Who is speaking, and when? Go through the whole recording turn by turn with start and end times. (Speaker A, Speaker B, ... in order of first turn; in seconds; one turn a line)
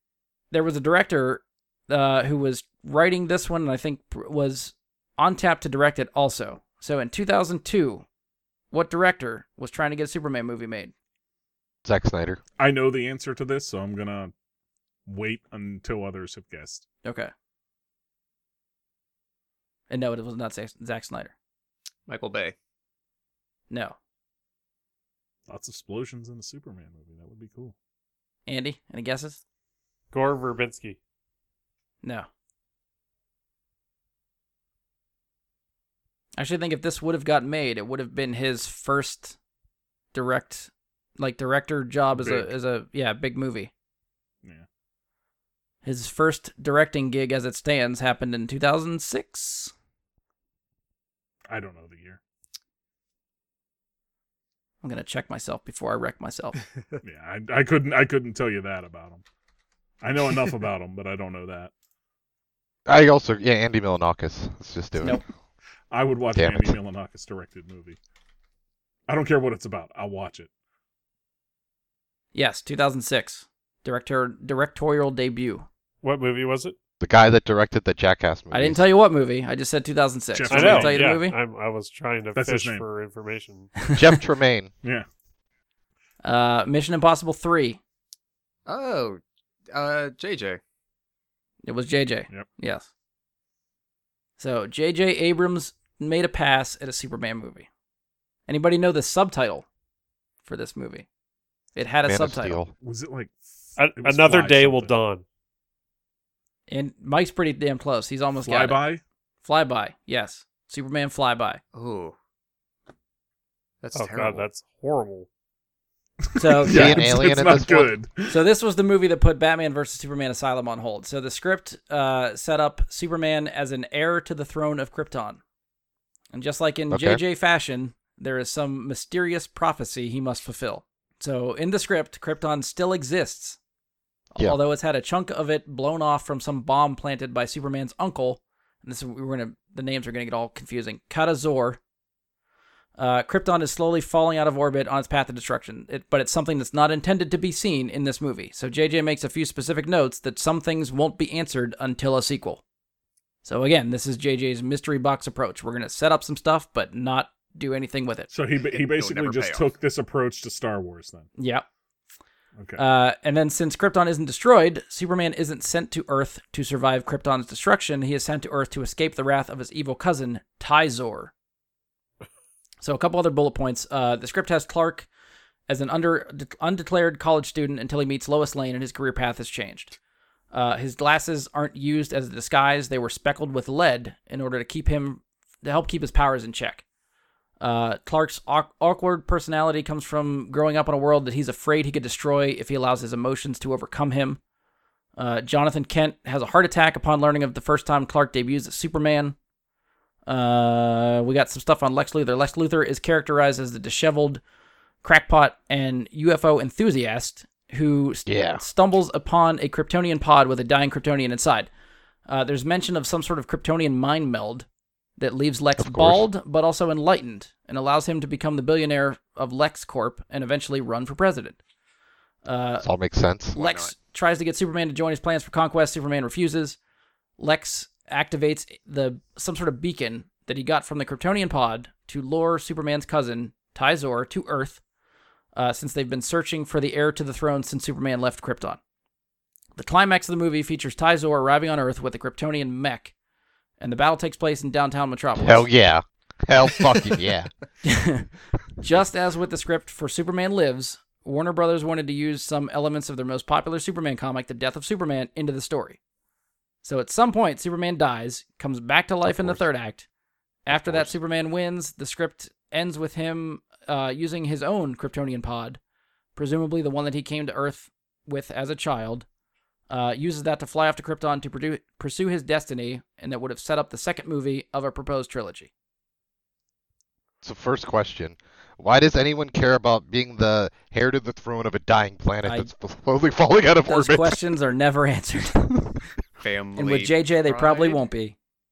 Speaker A: 0.5-8.1
Speaker A: 8.7-10.9
Speaker B: 11.8-12.4
Speaker C: 12.6-14.3
Speaker C: 15.1-16.9
Speaker A: 17.0-17.3
Speaker A: 19.9-21.3
Speaker D: 22.1-22.6
Speaker A: 23.7-24.0
Speaker C: 25.5-27.7
Speaker A: 28.5-29.4
Speaker E: 30.1-31.0
Speaker A: 36.4-39.4
Speaker A: 40.1-43.7
Speaker C: 42.1-42.5
Speaker A: 45.8-49.7
Speaker C: 51.5-52.2
Speaker A: 54.8-56.6
Speaker C: 57.0-59.2
Speaker C: 60.0-61.7
Speaker B: 62.9-65.2
Speaker C: 65.9-68.0
Speaker B: 66.3-66.8
Speaker C: 69.1-70.5
Speaker A: 72.3-75.7
Speaker E: 76.0-76.8
Speaker B: 77.0-78.8
Speaker A: 78.5-81.4
Speaker C: 80.3-81.0
Speaker E: 80.5-83.8
Speaker C: 82.3-82.8
Speaker B: 84.0-84.7
Speaker A: 86.2-87.8
Speaker D: 88.7-89.2
Speaker D: 89.7-90.6
Speaker A: 91.6-92.9
Speaker A: 94.4-97.7
Speaker A: 98.5-99.7
Speaker A: 100.4-101.1
Speaker A: 101.8-102.6
Speaker B: 102.0-102.7
Speaker C: 102.8-104.9
Speaker E: 103.8-105.2
Speaker A: 106.7-108.8
Speaker C: 108.4-109.0
Speaker A: 109.4-111.6
Speaker D: 111.7-112.2
Speaker D: 113.8-114.5
Speaker E: 113.9-115.3
Speaker C: 116.3-118.4
Speaker A: 116.4-117.2
Speaker B: 116.7-117.9
Speaker A: 118.3-125.4
Speaker A: 126.3-133.6
Speaker B: 126.9-127.2
Speaker A: 134.3-141.8
Speaker A: 143.0-152.6
Speaker A: 153.4-158.3
Speaker C: 158.3-161.3
Speaker D: 158.6-159.7
Speaker A: 161.4-161.7
Speaker C: 162.6-162.8
Speaker A: 162.8-171.3
Speaker A: 172.8-175.1
Speaker A: 175.7-180.0
Speaker A: 180.5-186.8
Speaker A: 187.6-194.4
Speaker A: 195.2-199.4
Speaker A: 200.3-204.4
Speaker A: 205.0-211.7
Speaker B: 208.3-208.6
Speaker A: 212.3-214.7
Speaker A: 215.2-221.6
Speaker B: 215.8-216.2
Speaker A: 222.4-222.9
Speaker B: 222.8-223.6
Speaker D: 223.5-223.9
Speaker A: 223.5-226.8
Speaker A: 227.4-234.8
Speaker A: 235.6-238.8
Speaker A: 239.8-243.1
Speaker A: 243.8-245.7
Speaker B: 245.4-247.5
Speaker A: 247.8-248.3
Speaker A: 248.8-256.0
Speaker A: 256.8-260.1
Speaker B: 259.2-259.6
Speaker A: 260.7-265.8
Speaker B: 260.7-261.1
Speaker A: 266.4-269.3
Speaker A: 269.9-275.7
Speaker B: 277.4-284.4
Speaker A: 282.4-282.7
Speaker A: 283.9-286.0
Speaker D: 286.4-288.0
Speaker A: 286.8-288.4